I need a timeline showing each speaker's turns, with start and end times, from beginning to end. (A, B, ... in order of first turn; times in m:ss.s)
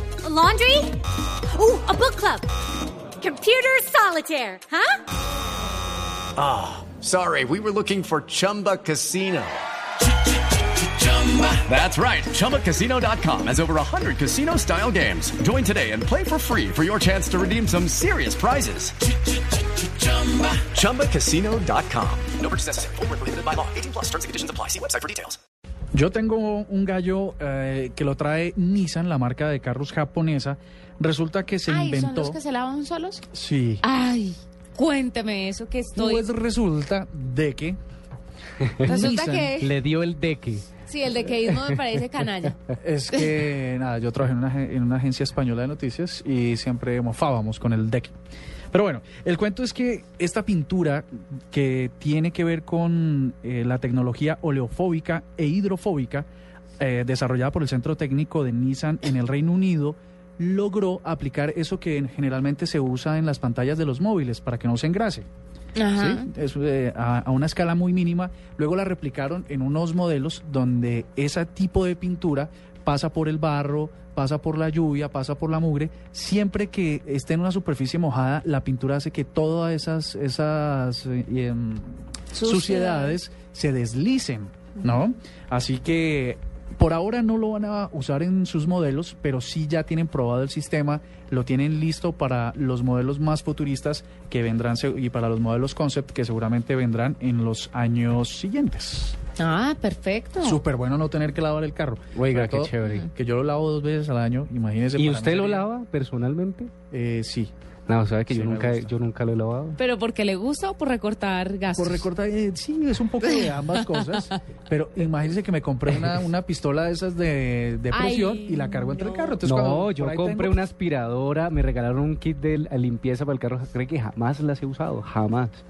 0:00.2-0:01.0 A
0:01.5-0:02.5 A
0:03.2-0:05.0 A
0:06.4-0:09.6 B
0:10.8-0:19.0 B
0:19.8-0:25.4 B
0:25.9-0:32.4 C
0:31.7-0:33.2 D
0:33.3-0:33.8 C
0:33.8-0:36.3 D
0:36.0-0:37.8 C
0:38.7-0:40.7 E
0:38.8-0:39.5 C
0:38.8-0:39.7 D
0:40.9-0:43.3 D
0:42.8-0:48.1 C
0:48.7-0:56.3 C
0:56.8-1:05.2 C
1:05.8-1:06.3 D
1:06.0-1:39.2 C
1:22.3-1:23.2 D
1:39.4-1:40.6 D
1:40.4-1:45.7 C
1:42.1-1:43.1 E
1:42.8-1:43.1 D
1:44.9-1:46.7 E
1:46.9-1:47.5 C
1:47.9-1:49.8 E
1:48.3-1:49.0 C
1:49.8-1:52.1 D
1:51.7-2:00.6 C
1:53.2-1:54.2 D
1:57.9-1:59.4 D
1:59.4-2:05.6 E